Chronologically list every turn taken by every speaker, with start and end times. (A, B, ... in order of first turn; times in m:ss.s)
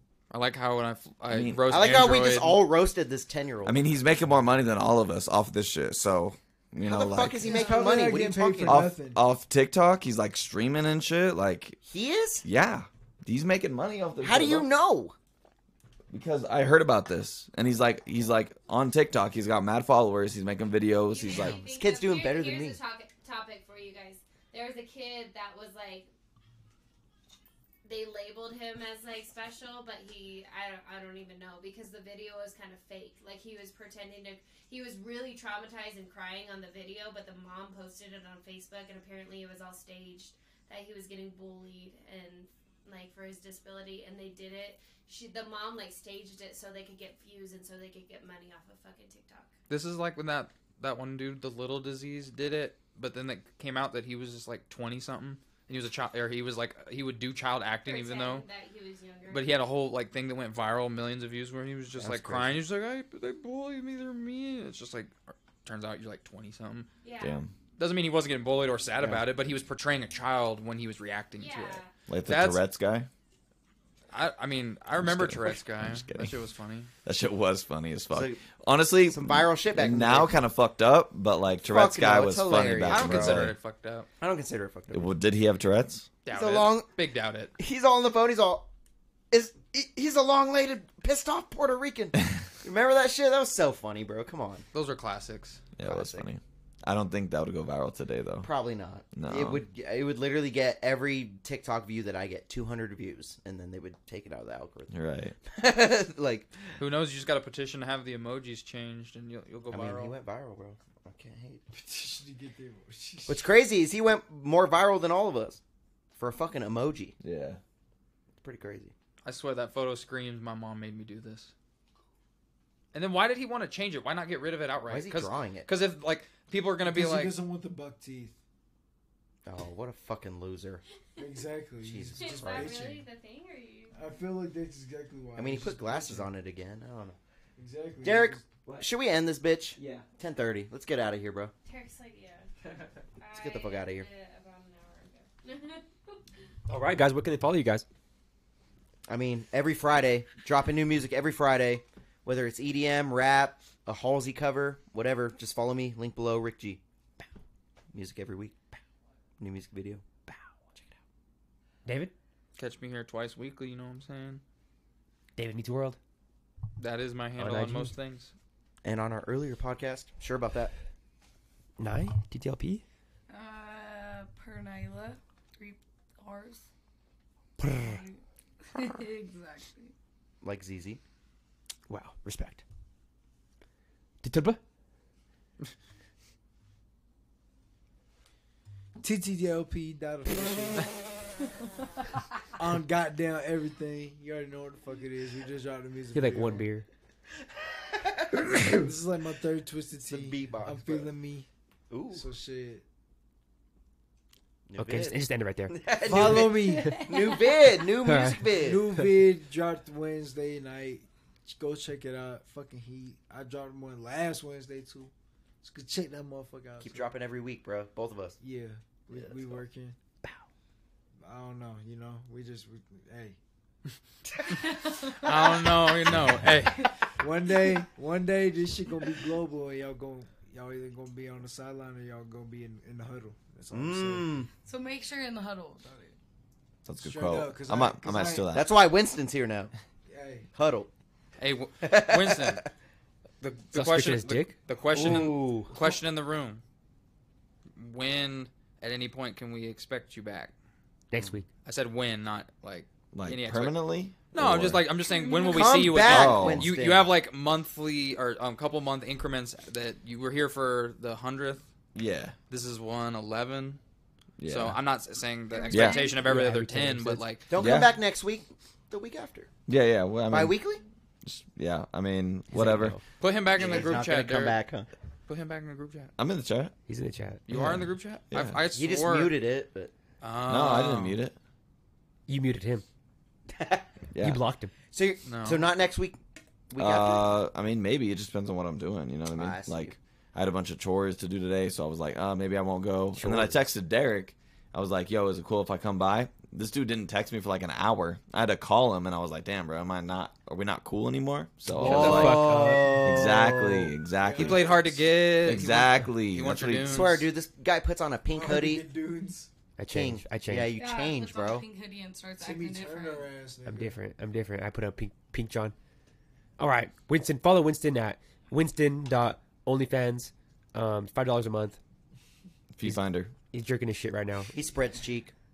0:00.3-0:02.6 A
0:01.3-0:01.7 B
0:01.7-0:03.8 C
0:03.6-0:07.5 B
0:06.8-0:08.9 C
0:07.4-0:09.2 D
0:07.5-0:08.0 E
0:08.6-0:11.8 B
0:11.8-0:12.4 C
0:12.4-0:14.7 B
0:14.2-0:15.2 C
0:16.1-0:21.6 B
0:21.1-0:26.1 E
0:21.3-0:22.8 C
0:27.8-0:49.5 E
0:49.7-0:58.5 A
0:57.9-0:59.5 E
0:59.3-1:06.9 A
1:02.0-1:02.6 C
1:07.0-1:07.4 E
1:07.2-1:07.5 B
1:07.8-1:12.6 A
1:09.0-1:09.3 F
1:11.4-1:11.9 E
1:12.1-1:13.1 B
1:14.1-1:16.9 A
1:15.0-1:16.3 B
1:17.0-1:23.6 B
1:18.1-1:18.4 C
1:19.1-1:20.4 C
1:21.6-1:23.4 C
1:22.9-1:24.1 A
1:24.2-1:25.2 C
1:24.9-1:26.1 B
1:26.2-1:27.5 A
1:26.3-1:26.9 C
1:27.6-1:28.7 C
1:29.3-1:34.6 C
1:34.7-1:35.6 A
1:35.8-1:38.5 B
1:35.8-1:36.3 C
1:38.4-1:44.9 C
1:39.1-1:39.6 B
1:44.9-1:45.4 B
1:45.5-1:46.6 C
1:46.8-1:50.2 A
1:49.7-1:51.6 C
1:51.7-1:53.4 D
1:53.3-1:55.6 C
1:56.2-1:57.2 C
1:57.2-1:57.6 B
1:58.4-1:58.9 C
1:59.2-2:01.5 A
2:02.9-2:07.4 A
2:04.9-2:05.7 C
2:06.8-2:08.4 D
2:09.5-2:10.8 C
2:11.2-2:13.0 D
2:11.8-2:12.8 C
2:12.2-2:14.2 E
2:13.9-2:16.3 D
2:15.4-2:17.2 C
2:17.6-2:18.4 D
2:18.0-2:21.5 C
2:18.6-2:18.9 F
2:19.8-2:20.1 F
2:21.6-2:22.5 E
2:23.2-2:26.2 E
2:23.3-2:24.1 C
2:26.7-2:27.9 F
2:29.1-2:36.8 C
2:37.9-2:38.6 C
2:39.4-2:40.0 C
2:40.3-2:40.8 F
2:41.8-2:42.1 F
2:42.6-2:44.4 A
2:45.4-2:46.0 F
2:46.8-2:48.3 A
2:47.4-2:47.9 F
2:48.8-2:50.7 C
2:51.8-2:52.8 F
2:53.3-2:56.7 G
2:57.6-2:58.0 F
2:57.8-2:58.2 G
2:58.7-2:59.9 G
3:00.4-3:01.0 C
3:01.9-3:02.6 F
3:04.2-3:04.6 F
3:09.0-3:10.9 D
3:12.6-3:16.7 D
3:16.1-3:16.9 F
3:18.7-3:21.5 D
3:20.1-3:21.1 C
3:21.9-3:22.3 C
3:22.1-3:22.8 D
3:24.7-3:28.9 C
3:24.8-3:26.6 F
3:26.0-3:27.0 D
3:27.0-3:27.4 G
3:28.0-3:28.4 F
3:28.6-3:37.1 D
3:36.8-3:38.4 C
3:38.4-3:40.0 D
3:39.1-3:39.6 C
3:41.2-3:43.4 D
3:44.6-3:45.4 G
3:45.2-3:47.0 A
3:47.2-3:54.3 D
3:53.7-3:54.5 C
3:54.6-3:56.2 G
3:56.9-3:58.7 B
3:57.0-3:58.5 D
3:58.5-3:59.7 C
4:00.1-4:00.5 D
4:00.6-4:00.9 C
4:01.4-4:02.6 A
4:01.8-4:02.6 C
4:03.4-4:06.6 A
4:03.7-4:04.6 F
4:04.9-4:05.8 C
4:07.8-4:10.5 A
4:11.1-4:11.5 F
4:11.6-4:21.7 A
4:13.1-4:14.9 B
4:15.0-4:15.8 G
4:15.5-4:17.1 C
4:16.0-4:16.7 B
4:22.0-4:22.4 B
4:22.5-4:23.8 A
4:24.4-4:24.8 B
4:24.5-4:27.6 A
4:25.5-4:26.2 G
4:25.7-4:26.0 B
4:26.2-4:27.2 F
4:27.5-4:29.5 C
4:27.6-4:28.0 B
4:29.7-4:30.6 B
4:30.3-4:30.8 C
4:31.2-4:33.0 B
4:32.5-4:33.0 F
4:33.2-4:34.6 A
4:33.6-4:34.9 C
4:35.3-4:36.1 A
4:36.2-4:36.7 B
4:36.9-4:37.9 F
4:37.5-4:39.3 A
4:38.3-4:38.6 B
4:38.7-4:39.9 C
4:40.2-4:41.2 A
4:40.5-4:41.4 B
4:42.3-4:42.9 F
4:43.5-4:43.9 C
4:44.1-4:44.4 B
4:44.2-4:44.7 F
4:44.9-4:46.2 C
4:45.3-4:45.6 A
4:46.7-4:47.4 C
4:46.8-5:07.1 B
4:49.3-4:50.0 C
4:53.2-4:53.6 F
5:01.8-5:03.2 F
5:01.8-5:03.9 C
5:01.9-5:02.4 A
5:04.2-5:04.8 D
5:04.4-5:07.2 A
5:06.9-5:08.9 C
5:08.3-5:09.5 D
5:09.8-5:10.7 F
5:09.9-5:11.7 C
5:10.7-5:13.3 G
5:12.4-5:14.0 D
5:13.7-5:15.8 F
5:16.6-5:21.8 F
5:22.7-5:23.3 B
5:22.8-5:24.5 F
5:24.5-5:25.3 C